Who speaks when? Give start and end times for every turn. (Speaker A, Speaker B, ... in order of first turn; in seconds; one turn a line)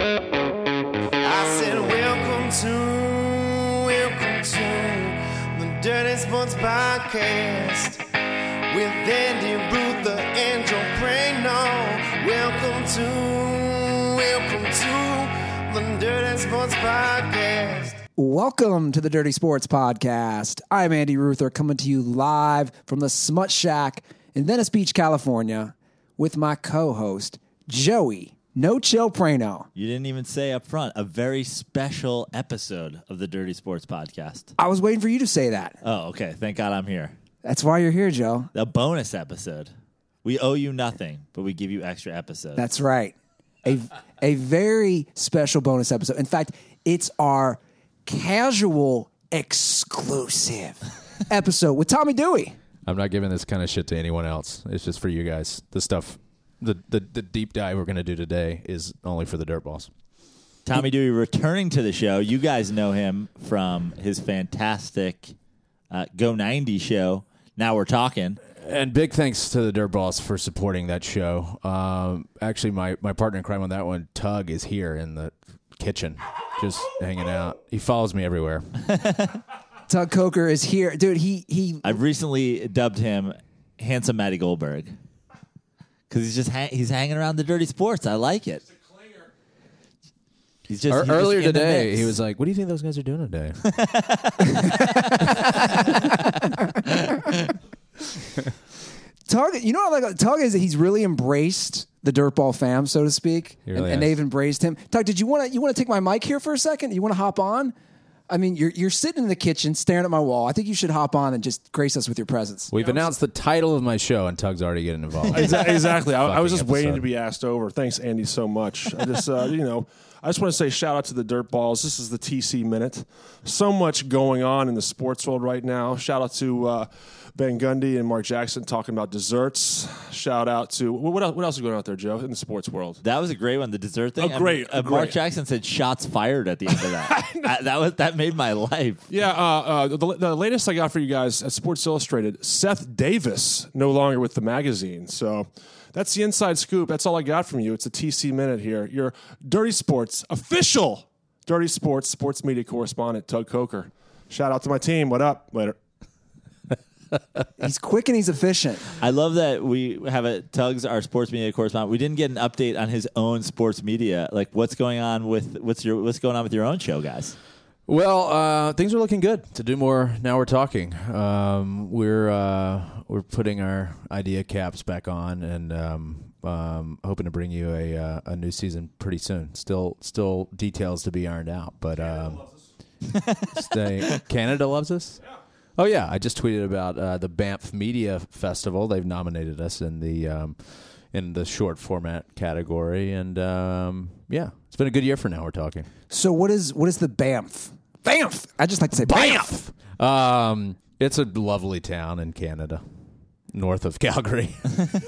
Speaker A: 1.2-8.0
Speaker A: 8.7-18.0
Speaker B: 18.2-29.7
Speaker C: 29.8-34.5
Speaker B: 34.6-35.8
Speaker C: 35.8-37.1
Speaker B: 37.4-38.5
Speaker C: 38.5-39.7
Speaker C: 40.2-42.6
Speaker B: 42.6-52.5
Speaker D: 52.9-59.9
Speaker C: 60.6-65.3
Speaker C: 65.9-68.4
Speaker D: 68.6-78.7
Speaker B: 79.9-82.0
Speaker C: 81.8-85.0
Speaker C: 86.1-88.6
Speaker C: 90.7-92.1
Speaker D: 90.9-93.6
Speaker C: 93.6-96.0
Speaker B: 94.7-95.2
Speaker B: 96.0-96.5
Speaker B: 99.3-107.7
Speaker D: 103.7-104.1
Speaker B: 108.3-112.7
Speaker D: 112.7-117.0
Speaker E: 112.8-113.1
Speaker E: 115.3-133.0
Speaker C: 133.0-139.0
Speaker E: 134.2-135.2
Speaker E: 136.7-137.5
Speaker E: 139.1-155.8
Speaker B: 157.6-158.9
Speaker C: 159.0-167.3
Speaker D: 167.9-182.4
Speaker C: 183.1-183.5
Speaker D: 183.5-185.2
Speaker D: 185.8-190.6
Speaker D: 191.1-195.9
Speaker B: 196.1-199.6
Speaker D: 199.0-202.8
Speaker D: 203.5-204.9